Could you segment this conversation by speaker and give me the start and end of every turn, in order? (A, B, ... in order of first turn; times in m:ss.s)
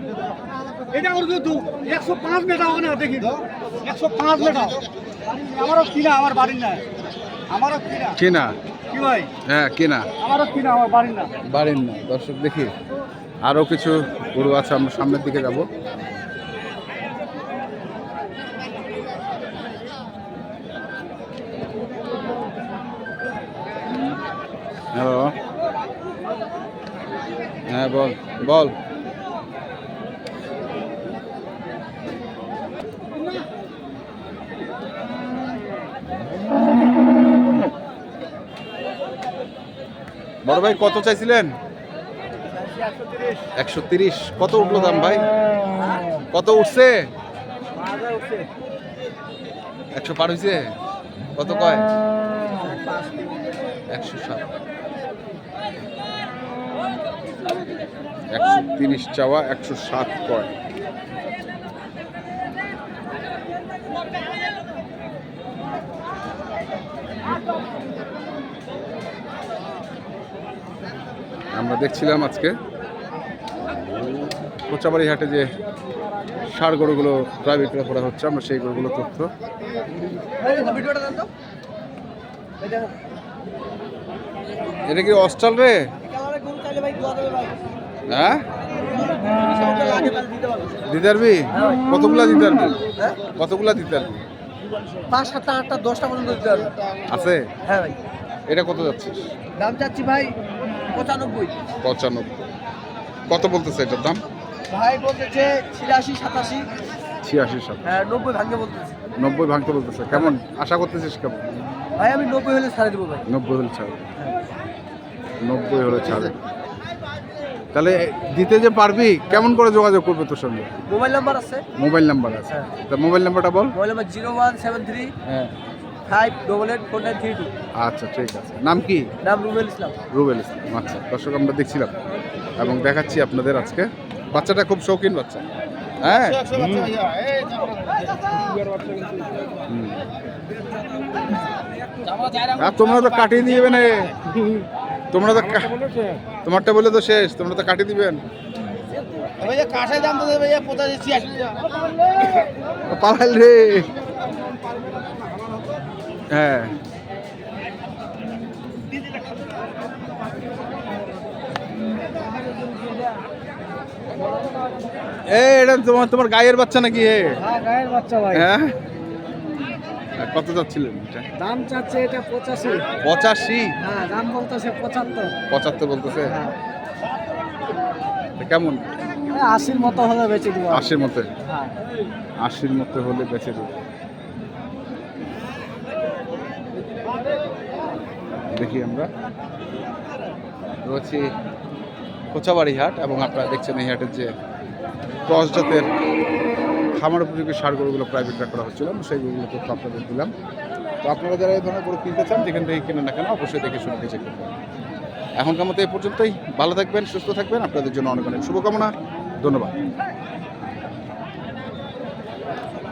0:00.9-0:04.8 A
0:01.0-0:03.3 B
0:03.8-0:04.8 B
0:05.4-0:06.8 B
0:05.4-0:06.8 A
0:07.5-0:08.0 B
0:07.5-0:08.0 A
0:08.1-0:08.5 C
0:08.9-0:09.3 B
0:09.5-0:10.1 C
0:10.2-0:11.3 B
0:10.3-0:11.2 A
0:11.4-0:12.7 C
0:13.4-0:15.7 C
0:24.9-0:25.4 C
0:27.7-0:28.8 C
0:40.4-0:41.5 C
0:42.8-0:43.2 B
0:43.6-0:45.3 C
0:45.8-0:46.2 B
0:46.3-0:47.0 C
0:47.8-0:48.4 B
0:49.9-0:50.7 C
0:51.3-0:51.9 C
0:52.5-0:53.1 B
0:53.9-0:54.5 C
0:58.3-1:00.5 C
1:11.5-1:12.5 C
1:14.7-1:15.5 C
1:16.4-1:19.3 C
1:20.4-1:21.3 B
1:22.6-1:22.9 B
1:24.8-1:25.8 C
1:26.1-1:27.6 B
1:28.1-1:28.4 C
1:28.8-1:30.8 B
1:30.8-1:34.2 C
1:31.5-1:31.8 B
1:35.0-1:36.7 B
1:37.1-1:37.4 C
1:37.6-1:38.0 B
1:38.5-1:39.2 C
1:39.6-1:40.4 B
1:40.9-1:41.6 B
1:41.8-1:42.5 C
1:43.3-1:44.2 C
1:44.7-1:46.7 B
1:47.2-1:48.0 C
1:47.8-1:49.0 B
1:49.2-1:51.6 C
1:52.0-1:53.2 B
1:53.3-1:54.1 C
1:55.4-1:56.3 C
1:57.7-2:00.7 C
2:00.9-2:01.6 B
2:01.8-2:03.7 C
2:03.7-2:05.1 B
2:05.2-2:05.5 C
2:06.0-2:07.5 B
2:07.8-2:09.1 C
2:09.2-2:10.0 B
2:10.1-2:11.9 C
2:12.6-2:15.4 C
2:16.0-2:16.9 C
2:17.0-2:17.6 A
2:19.7-2:20.0 C
2:22.5-2:24.2 C
2:25.1-2:25.8 C
2:26.4-2:28.2 C
2:29.4-2:31.7 A
2:32.9-2:33.9 C
2:36.3-2:36.7 C
2:45.2-2:47.4 C
2:47.4-2:48.4 B
2:48.3-2:48.7 C
2:50.2-2:51.2 C
2:51.4-2:52.9 B
2:53.0-2:53.7 C
2:53.8-2:55.3 B
2:55.5-2:56.4 C
2:56.3-2:56.5 B
2:58.4-2:58.9 C
2:59.3-3:00.8 B
3:00.7-3:01.3 C
3:01.5-3:01.7 B
3:02.4-3:03.8 C
3:08.5-3:09.1 C
3:10.8-3:11.2 C
3:12.3-3:14.3 C
3:15.2-3:15.9 C
3:16.9-3:20.3 C
3:21.0-3:24.5 C
3:25.4-3:29.7 C